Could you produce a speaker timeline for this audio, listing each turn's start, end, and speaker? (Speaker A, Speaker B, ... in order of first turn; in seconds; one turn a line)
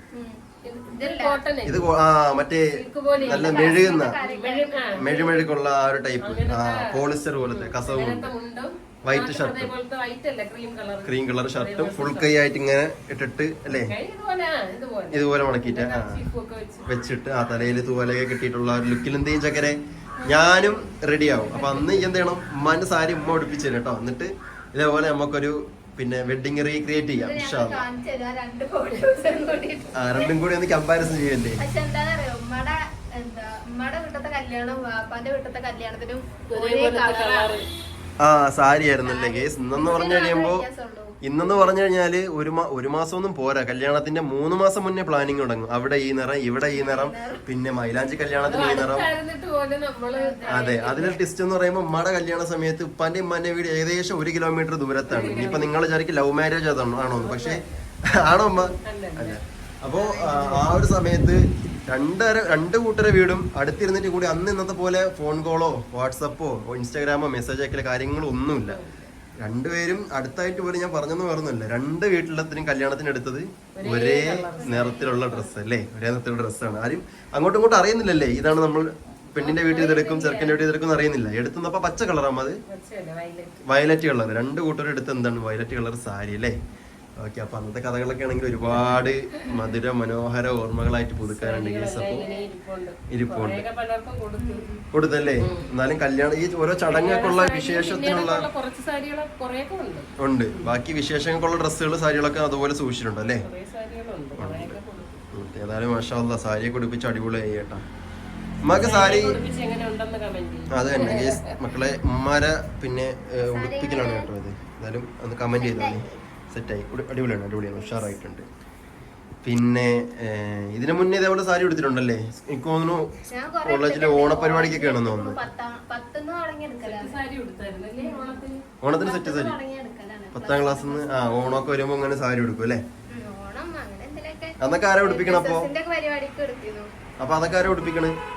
Speaker A: 0.1-0.4
Speaker B: 0.6-1.9
Speaker A: 0.9-1.4
Speaker C: 1.6-4.2
Speaker B: 2.8-5.4
Speaker A: 3.1-5.4
Speaker C: 4.9-8.3
Speaker B: 6.2-12.4
Speaker C: 9.0-9.7
Speaker C: 11.0-13.9
Speaker B: 13.9-16.9
Speaker C: 15.1-16.2
Speaker C: 16.9-27.8
Speaker B: 20.2-20.8
Speaker B: 21.5-22.1
Speaker A: 27.1-30.4
Speaker C: 29.9-31.6
Speaker A: 31.6-37.7
Speaker B: 36.5-37.7
Speaker C: 38.2-40.6
Speaker A: 39.0-41.7
Speaker C: 41.2-49.1
Speaker A: 46.7-47.4
Speaker B: 48.4-51.2
Speaker A: 50.1-50.8
Speaker C: 50.5-68.8
Speaker B: 55.1-55.8
Speaker B: 57.1-57.8
Speaker B: 58.7-59.4
Speaker A: 60.0-60.5
Speaker B: 60.1-60.7
Speaker B: 68.6-69.1
Speaker C: 69.4-82.6
Speaker B: 73.8-75.6
Speaker A: 74.4-75.0
Speaker B: 79.4-80.7
Speaker B: 82.7-83.5
Speaker C: 83.6-86.5
Speaker C: 87.2-92.3
Speaker B: 88.7-89.0
Speaker B: 91.2-94.7
Speaker A: 92.2-92.5
Speaker C: 93.1-93.6
Speaker A: 94.4-94.8
Speaker C: 94.9-98.5
Speaker B: 95.4-95.7
Speaker B: 96.9-100.7
Speaker C: 100.2-103.5
Speaker B: 103.4-105.2
Speaker C: 104.4-104.8
Speaker C: 105.3-107.8
Speaker C: 108.6-109.4
Speaker B: 108.7-111.6
Speaker C: 110.7-118.4
Speaker A: 113.4-114.3
Speaker A: 115.5-116.2
Speaker A: 117.7-118.2
Speaker C: 119.4-125.4
Speaker A: 123.3-127.2
Speaker B: 126.8-128.7
Speaker A: 128.0-131.7
Speaker C: 128.8-129.6
Speaker C: 130.3-132.8
Speaker A: 133.1-136.9
Speaker C: 134.6-135.7
Speaker C: 137.2-138.2